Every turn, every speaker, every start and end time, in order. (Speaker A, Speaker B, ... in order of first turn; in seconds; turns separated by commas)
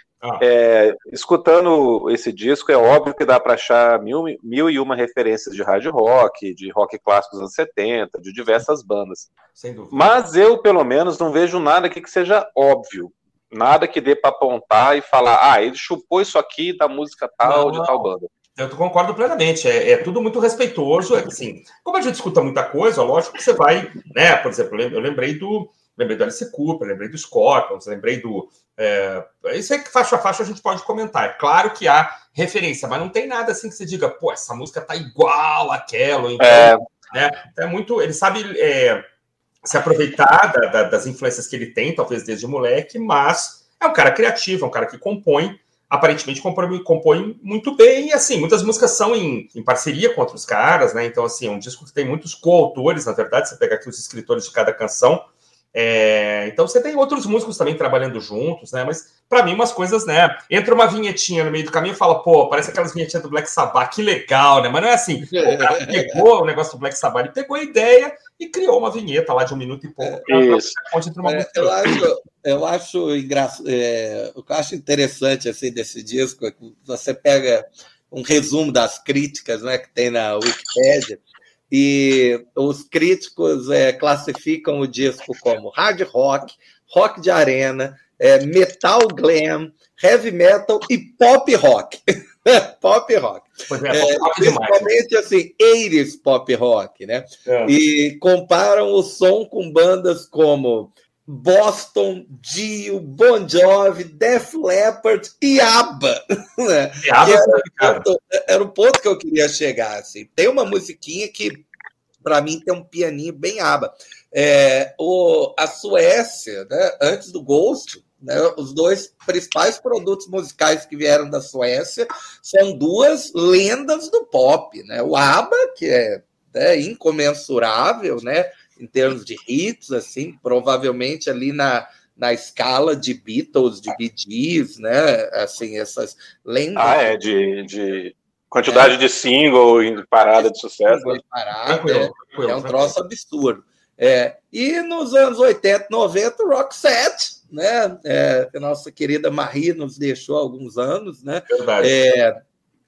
Speaker A: 0.4-9.3, Speaker B: 9.6-10.1, Speaker A: 9.9-18.3, Speaker B: 17.4-39.0, Speaker A: 36.4-36.8, Speaker B: 39.6-72.0, Speaker C: 65.3-66.2, Speaker A: 70.3-70.7, Speaker C: 71.2-111.7, Speaker B: 93.7-94.9, Speaker B: 97.5-97.8, Speaker B: 107.0-108.1, Speaker C: 112.2-137.1, Speaker A: 136.8-141.2, Speaker C: 138.7-138.9, Speaker C: 140.4-152.4, Speaker B: 141.7-142.9, Speaker B: 151.5-151.9